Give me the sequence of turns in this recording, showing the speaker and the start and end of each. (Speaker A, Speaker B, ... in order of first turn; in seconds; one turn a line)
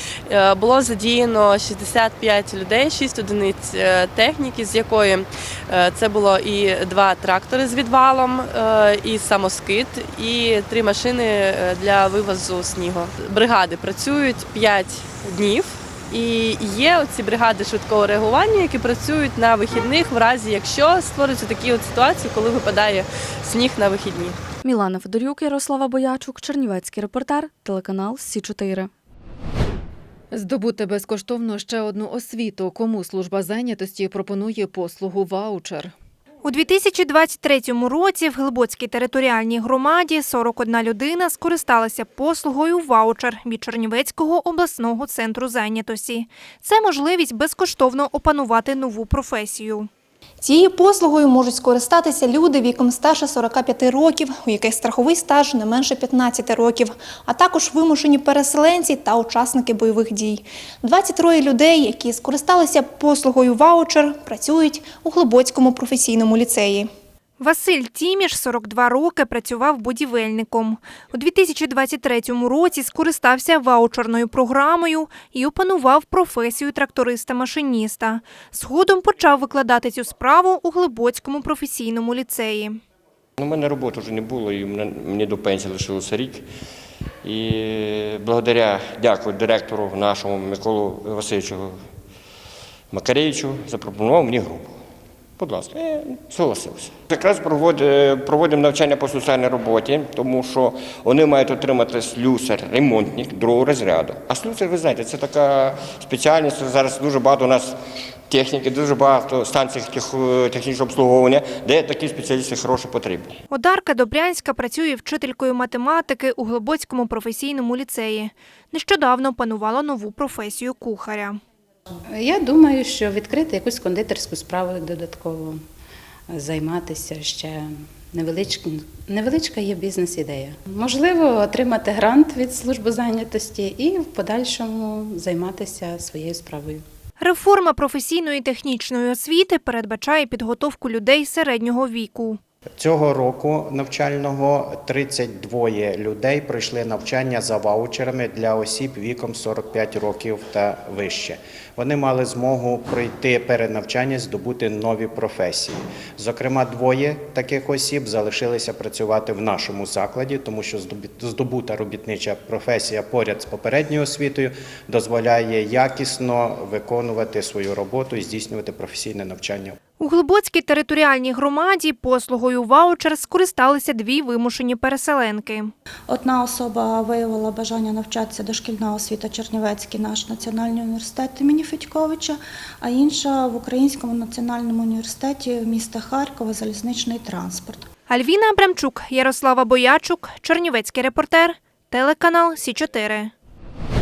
Speaker A: 0.3-24.4
Speaker B: 24.7-28.9
Speaker C: 30.3-35.9
Speaker D: 36.4-49.9
Speaker E: 50.4-66.9
Speaker D: 67.4-82.8
Speaker F: 83.4-86.4
Speaker F: 87.2-91.8
Speaker F: 92.9-94.8
Speaker F: 95.4-107.8
Speaker F: 108.3-113.3
Speaker D: 113.5-121.4
Speaker G: 122.1-125.6
Speaker G: 126.3-136.8
Speaker D: 137.2-142.4
Speaker H: 142.8-169.8
Speaker D: 170.0-175.7
Speaker I: 176.1-187.9
Speaker D: 188.1-193.3